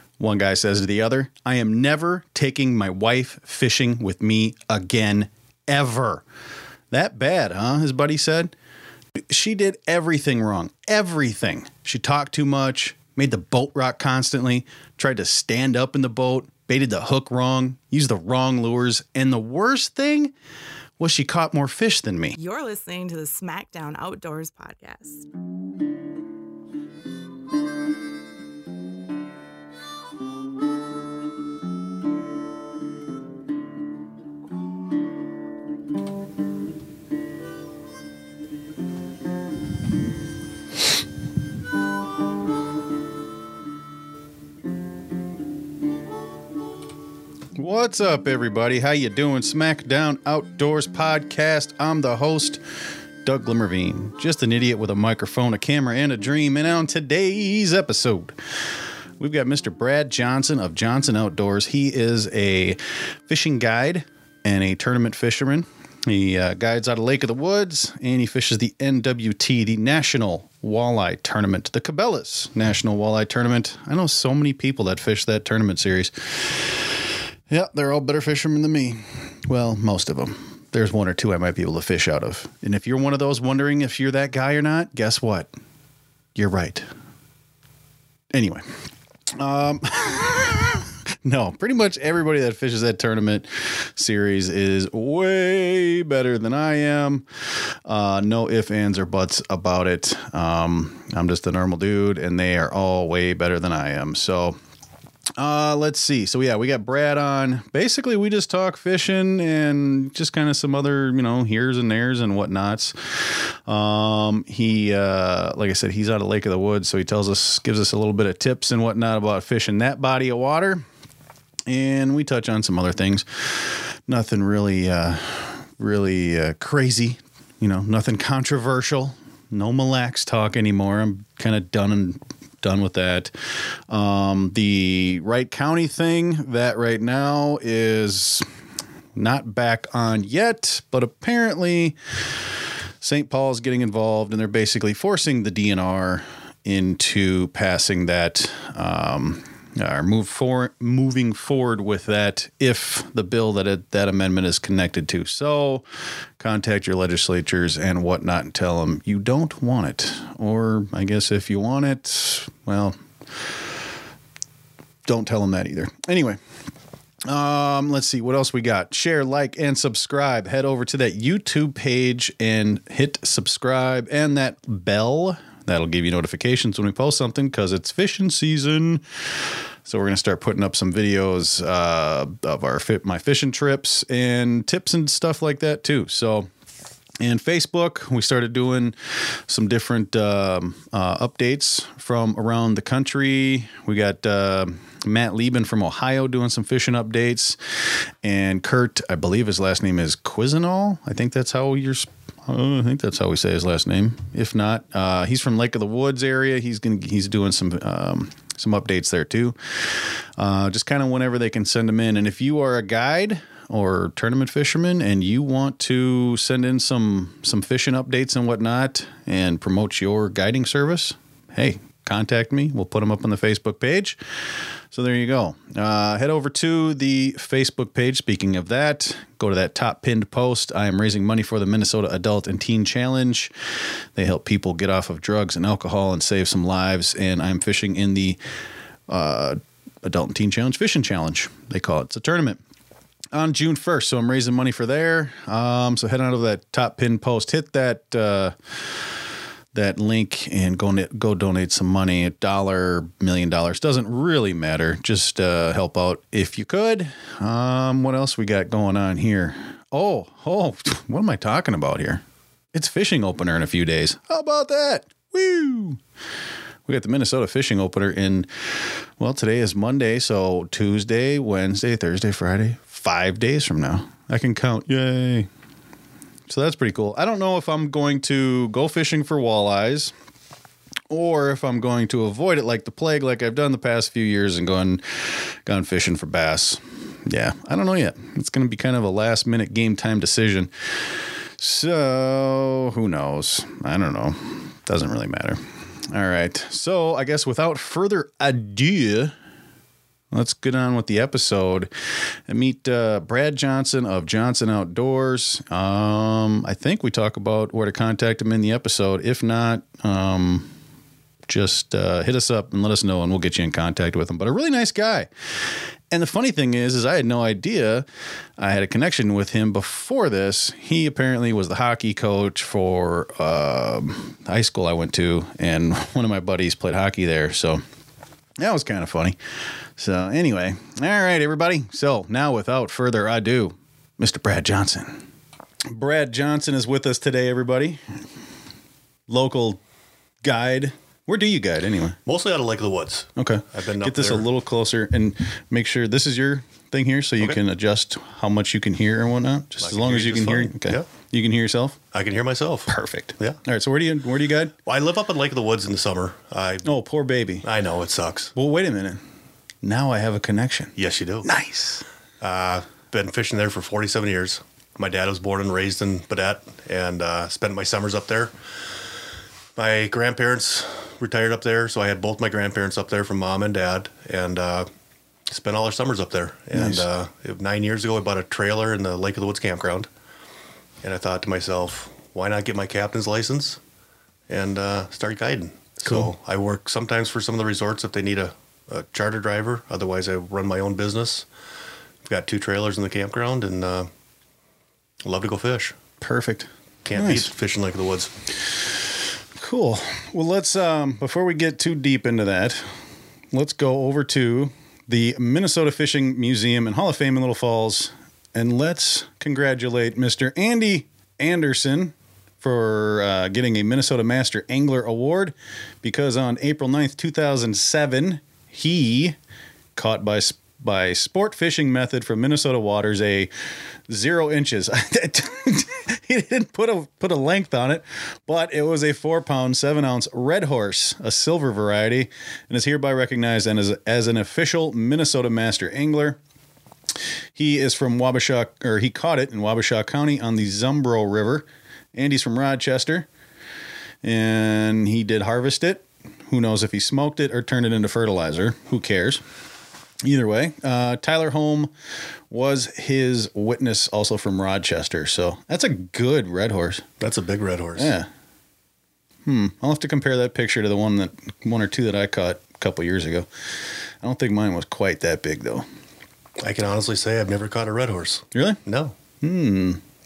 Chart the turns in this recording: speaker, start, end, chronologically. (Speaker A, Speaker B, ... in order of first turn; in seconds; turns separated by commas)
Speaker A: 0.2-6.2, Speaker A: 6.9-8.5, Speaker A: 9.2-20.3, Speaker A: 21.0-22.4, Speaker B: 22.4-25.3, Speaker A: 47.5-52.6, Speaker A: 53.2-58.4, Speaker A: 59.2-76.9, Speaker A: 77.5-85.5, Speaker A: 86.4-86.9, Speaker A: 88.3-88.7, Speaker A: 89.4-97.2, Speaker A: 97.8-104.6, Speaker A: 105.4-120.8, Speaker A: 121.7-138.4, Speaker A: 139.2-142.0, Speaker A: 143.0-155.8, Speaker A: 156.4-163.4, Speaker A: 165.1-166.4, Speaker A: 167.3-179.0, Speaker A: 179.8-186.5, Speaker A: 187.2-197.6, Speaker A: 198.2-224.2, Speaker A: 224.9-233.5, Speaker A: 234.2-238.4, Speaker A: 239.1-242.6, Speaker A: 243.3-248.6, Speaker A: 249.7-266.0, Speaker A: 266.9-275.5, Speaker A: 276.5-280.1, Speaker A: 281.1-290.7, Speaker A: 291.6-299.3, Speaker A: 300.3-301.9, Speaker A: 302.5-310.7, Speaker A: 311.5-315.3, Speaker A: 316.1-318.1, Speaker A: 318.6-327.8, Speaker A: 328.6-329.4, Speaker A: 330.0-335.2, Speaker A: 335.9-338.0, Speaker A: 339.3-339.8, Speaker A: 340.4-342.2, Speaker C: 342.2-344.5, Speaker A: 343.4-352.0, Speaker C: 349.8-351.1, Speaker C: 352.1-353.6, Speaker A: 352.9-354.8, Speaker C: 354.9-356.9, Speaker A: 356.8-357.7, Speaker C: 357.6-358.5, Speaker A: 358.6-359.2, Speaker A: 359.8-362.0, Speaker C: 361.0-361.5, Speaker C: 362.4-368.6, Speaker C: 369.8-374.9, Speaker C: 375.5-380.1, Speaker A: 376.8-377.1, Speaker C: 381.0-383.8, Speaker C: 384.5-391.5, Speaker C: 392.2-394.1, Speaker C: 395.2-396.0, Speaker A: 396.2-397.5, Speaker C: 397.1-398.3, Speaker A: 399.6-402.8, Speaker A: 403.5-419.4, Speaker A: 419.9-423.5, Speaker A: 424.1-436.4, Speaker A: 437.6-443.3, Speaker A: 444.2-449.4, Speaker A: 450.2-451.9, Speaker A: 452.5-457.1, Speaker C: 457.2-458.1, Speaker A: 458.0-458.3, Speaker A: 459.4-463.5, Speaker A: 464.2-465.9, Speaker C: 466.6-469.1, Speaker A: 468.5-468.8, Speaker A: 469.4-470.0